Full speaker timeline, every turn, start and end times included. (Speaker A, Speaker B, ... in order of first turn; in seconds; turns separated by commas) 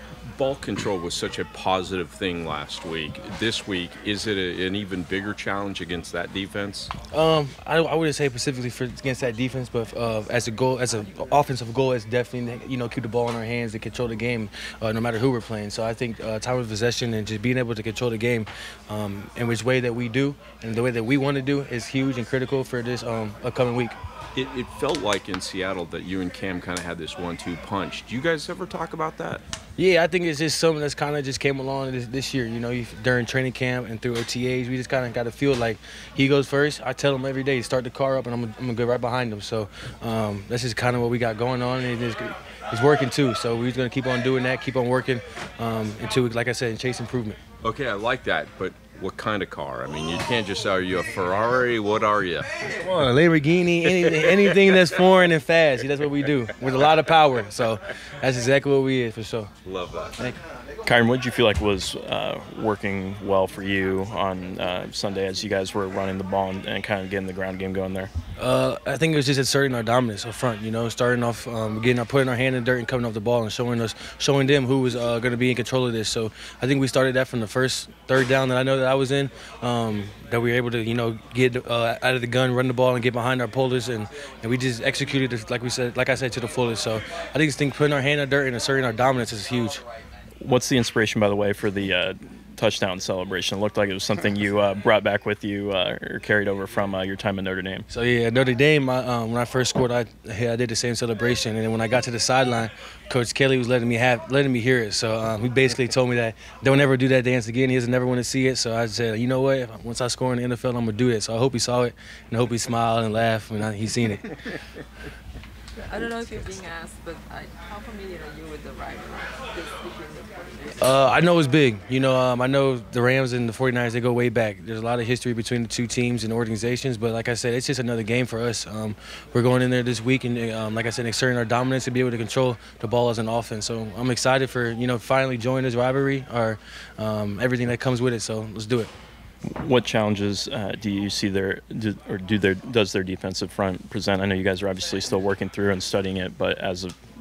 Speaker A: 0.3-6.9, Speaker B: 7.1-24.0, Speaker A: 24.4-29.4, Speaker B: 29.8-47.4, Speaker A: 47.6-52.5, Speaker B: 52.7-59.5, Speaker A: 59.6-60.2, Speaker C: 60.9-68.1, Speaker B: 68.4-89.8, Speaker C: 90.4-97.8, Speaker B: 97.9-114.4, Speaker D: 115.8-121.0, Speaker B: 120.8-138.9, Speaker C: 139.4-146.9